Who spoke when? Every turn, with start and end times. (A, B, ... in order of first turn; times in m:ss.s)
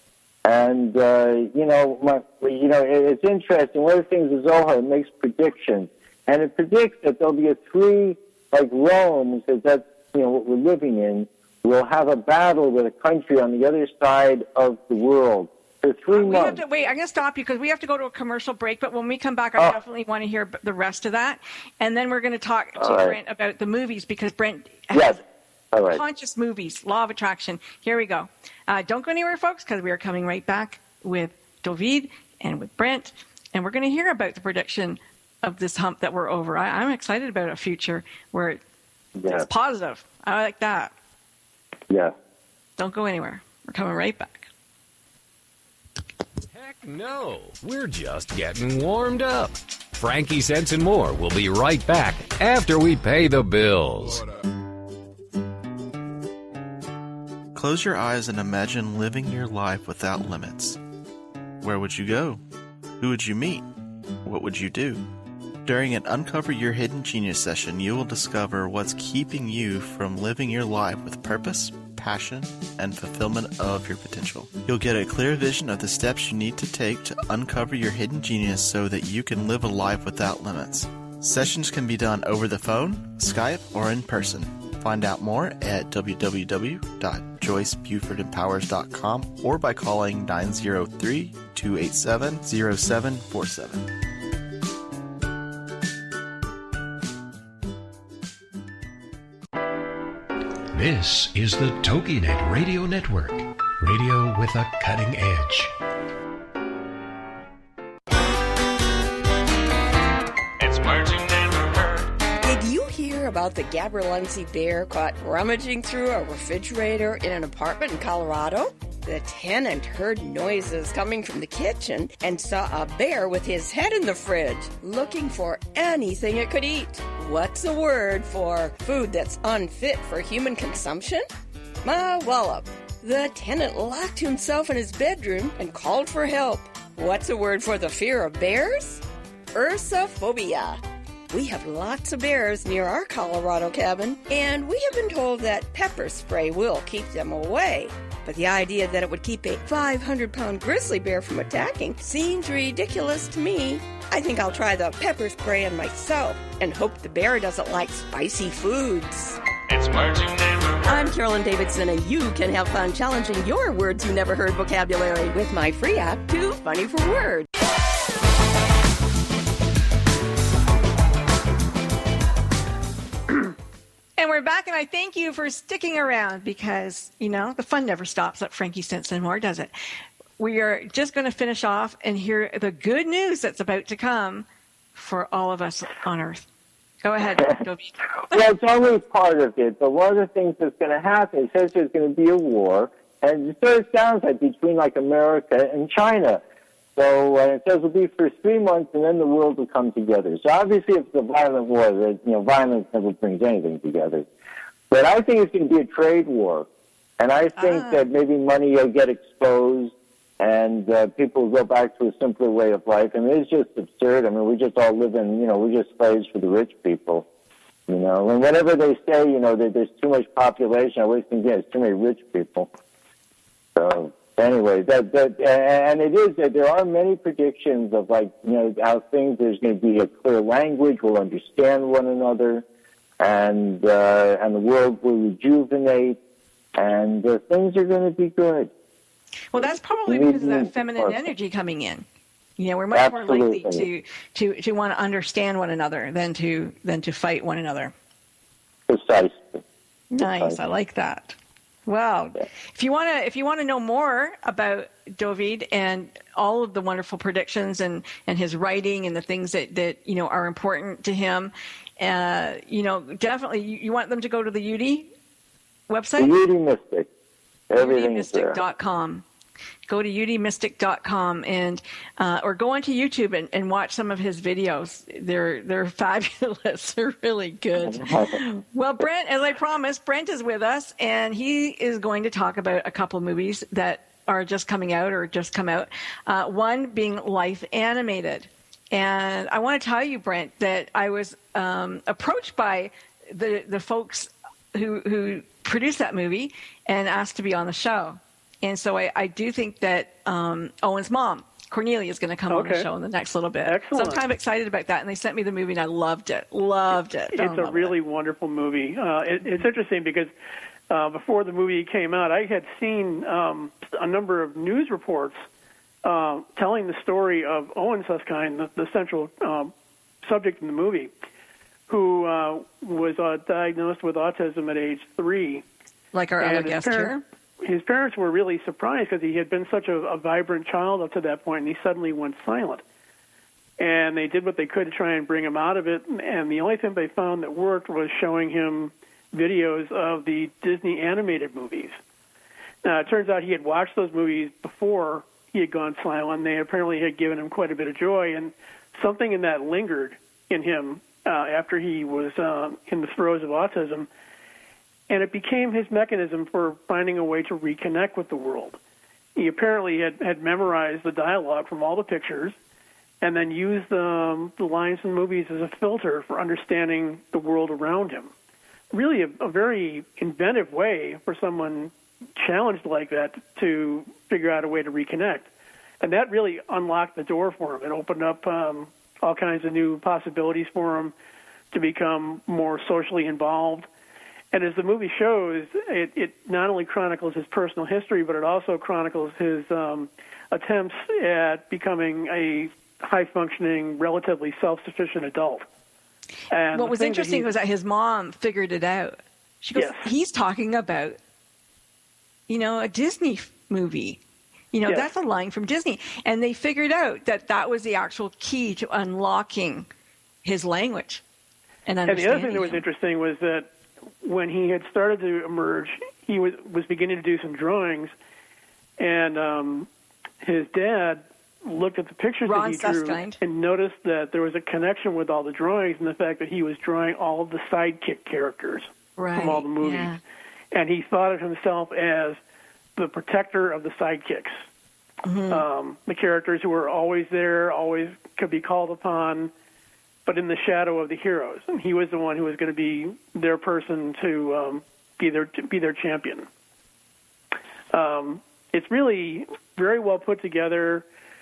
0:00.4-0:16.6 A
0:16.1-0:25.2 B
0:22.8-0:23.2 A
0:24.9-0:25.2 A
0:25.7-0:26.0 A
0:25.9-0:38.6 B
0:39.2-0:39.5 A
0:39.3-0:40.9 B
0:42.8-0:44.5 B
0:46.5-0:54.2 C
0:57.5-1:00.8 D
1:01.6-1:02.4 D
1:03.0-1:03.7 D
1:04.2-1:05.1 D
1:05.6-1:33.9 D
1:40.7-1:45.7 E
1:52.4-2:11.2 F
2:11.8-2:19.0 F
2:19.5-2:39.4 F
2:40.8-2:47.5 F
2:54.2-2:59.7 B
3:00.4-3:06.5 B
3:07.0-3:08.3 B
3:08.3-3:16.4 A
3:17.0-3:24.2 A
3:24.9-3:26.7 A
3:27.2-3:37.2 A
3:27.6-3:28.0 B
3:37.9-3:42.7 A
3:43.8-3:52.6 A
3:53.2-3:56.2 A
3:56.8-3:58.7 A
3:59.5-4:02.0 B
3:59.6-4:01.2 A
4:02.6-4:07.9 B
4:02.9-4:03.9 A
4:08.9-4:09.6 A
4:10.1-4:11.3 B
4:10.2-4:10.6 A
4:11.8-4:25.1 B
4:25.9-4:26.4 B
4:26.2-4:27.1 A
4:27.7-4:28.6 A
4:27.8-4:29.2 B
4:29.9-5:07.9 B
4:37.9-4:38.4 A
5:02.5-5:02.9 G
5:03.6-5:04.2 G
5:07.3-5:10.3 G
5:10.9-5:15.4 G
5:16.0-5:21.1 G
5:21.9-5:25.6 G
5:26.1-5:27.2 B
5:26.4-5:32.8 G
5:33.8-5:42.0 G
5:42.8-5:54.1 G
5:55.1-5:58.8 G
5:59.4-6:02.6 G
6:03.2-6:08.3 G
6:08.9-6:15.5 G
6:16.0-6:21.1 G
6:21.7-6:23.9 G
6:24.5-6:35.6 G
6:36.5-6:37.5 G
6:36.7-6:41.2 B
6:39.7-6:40.0 G
6:42.5-6:44.2 B
6:44.7-6:49.9 B
6:50.4-6:51.2 B
6:51.8-6:52.8 B
6:52.1-6:53.7 G
6:54.2-6:58.1 G
6:59.0-6:59.9 G
7:00.4-7:10.2 G
7:02.4-7:03.4 B
7:09.2-7:10.2 B
7:10.7-7:12.4 G
7:13.0-7:14.6 G
7:15.2-7:15.6 B
7:15.5-7:19.5 G
7:20.2-7:26.5 G
7:27.9-7:31.0 G